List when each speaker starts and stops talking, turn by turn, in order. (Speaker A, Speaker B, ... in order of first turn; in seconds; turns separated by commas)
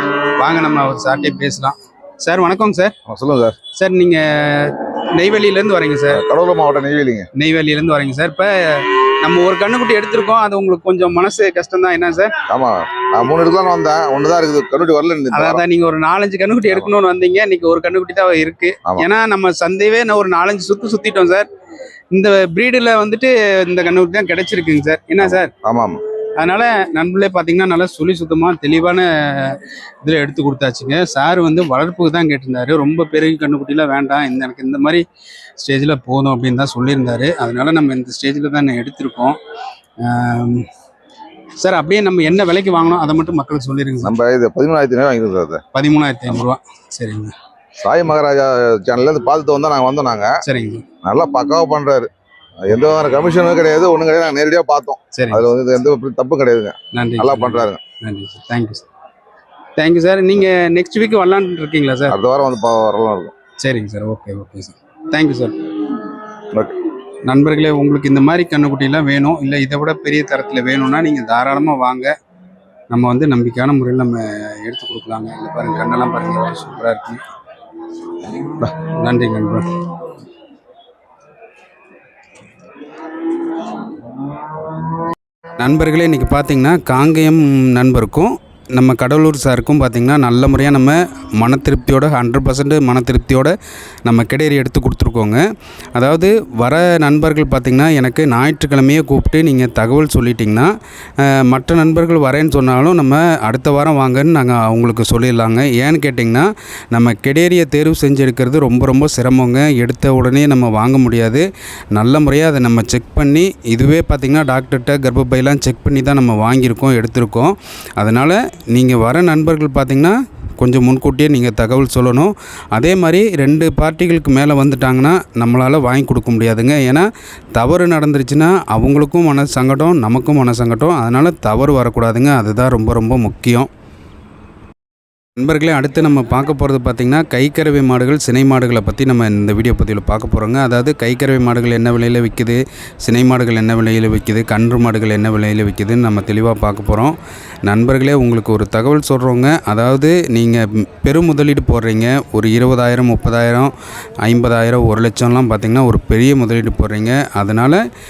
Speaker A: 0.4-2.9, Speaker B: 3.1-3.5, Speaker A: 3.8-6.2, Speaker B: 6.1-7.3, Speaker A: 7.3-12.3, Speaker B: 12.5-15.6, Speaker A: 15.3-21.5, Speaker A: 22.1-25.5, Speaker B: 25.2-26.0, Speaker A: 26.4-35.0, Speaker A: 35.6-39.4, Speaker A: 40.0-40.6, Speaker A: 41.6-44.1, Speaker B: 44.0-45.6, Speaker A: 45.7-47.3, Speaker B: 47.8-50.3, Speaker A: 50.4-50.8, Speaker B: 51.0-52.1, Speaker B: 52.6-57.8, Speaker A: 55.1-55.5, Speaker A: 56.9-58.8, Speaker A: 59.8-62.1, Speaker B: 62.1-63.3, Speaker A: 63.6-65.5, Speaker A: 67.2-72.1, Speaker A: 72.9-77.2, Speaker A: 78.6-79.7, Speaker A: 85.6-95.4, Speaker A: 95.9-100.7, Speaker A: 101.2-133.7, Speaker A: 135.4-157.8